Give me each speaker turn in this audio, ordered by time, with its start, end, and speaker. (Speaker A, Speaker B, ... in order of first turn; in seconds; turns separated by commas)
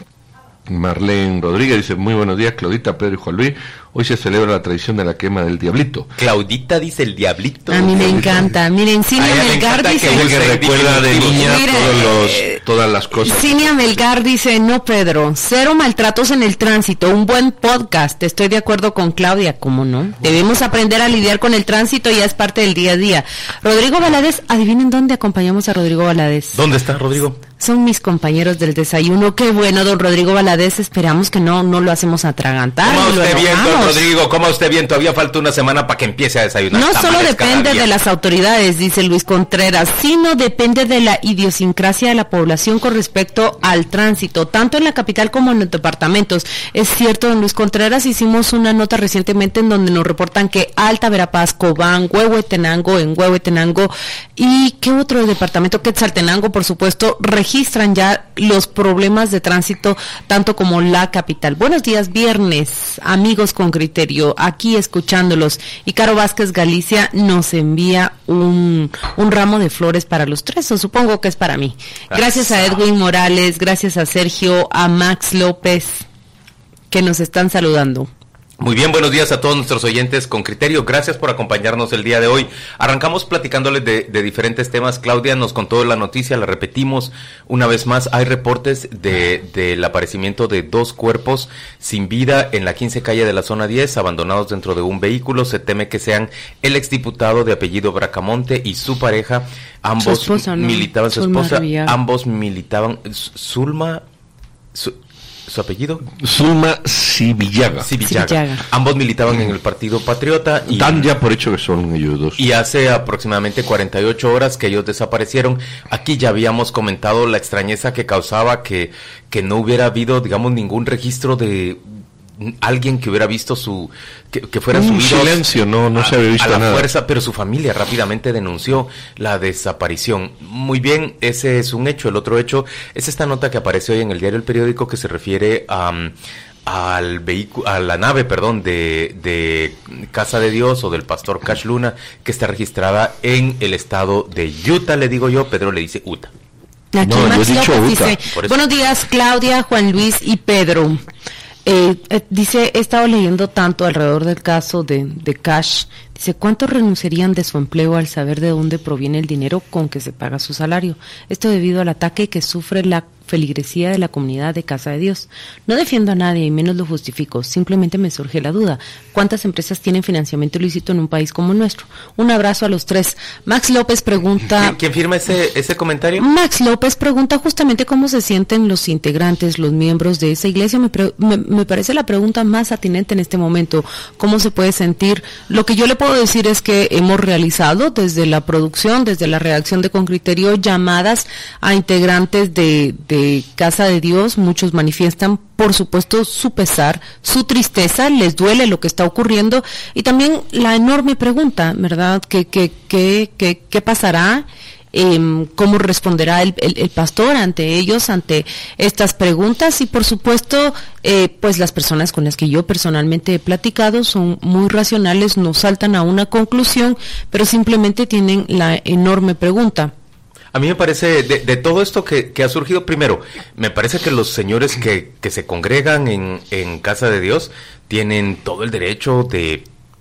Speaker A: 0.7-6.1, Speaker B: 6.2-8.4, Speaker C: 7.7-10.3, Speaker A: 8.0-8.4, Speaker B: 9.2-12.1, Speaker A: 10.1-14.1, Speaker C: 11.3-12.6, Speaker C: 13.2-26.6, Speaker B: 26.5-27.4, Speaker C: 27.6-34.1, Speaker B: 32.8-37.9, Speaker C: 36.7-76.1, Speaker B: 72.1-72.8, Speaker C: 76.9-78.1, Speaker B: 78.6-104.0, Speaker C: 100.0-102.0, Speaker B: 104.8-106.0, Speaker A: 106.2-107.9, Speaker B: 107.8-111.1, Speaker C: 108.1-108.6, Speaker A: 110.7-112.4, Speaker B: 112.4-121.9, Speaker B: 122.4-125.4, Speaker A: 124.7-126.9, Speaker B: 126.0-136.1, Speaker B: 136.7-146.3, Speaker C: 146.9-151.0, Speaker A: 147.0-148.2, Speaker B: 148.3-148.6, Speaker C: 151.7-174.8, Speaker B: 174.6-176.2, Speaker C: 176.2-219.9, Speaker B: 220.5-229.7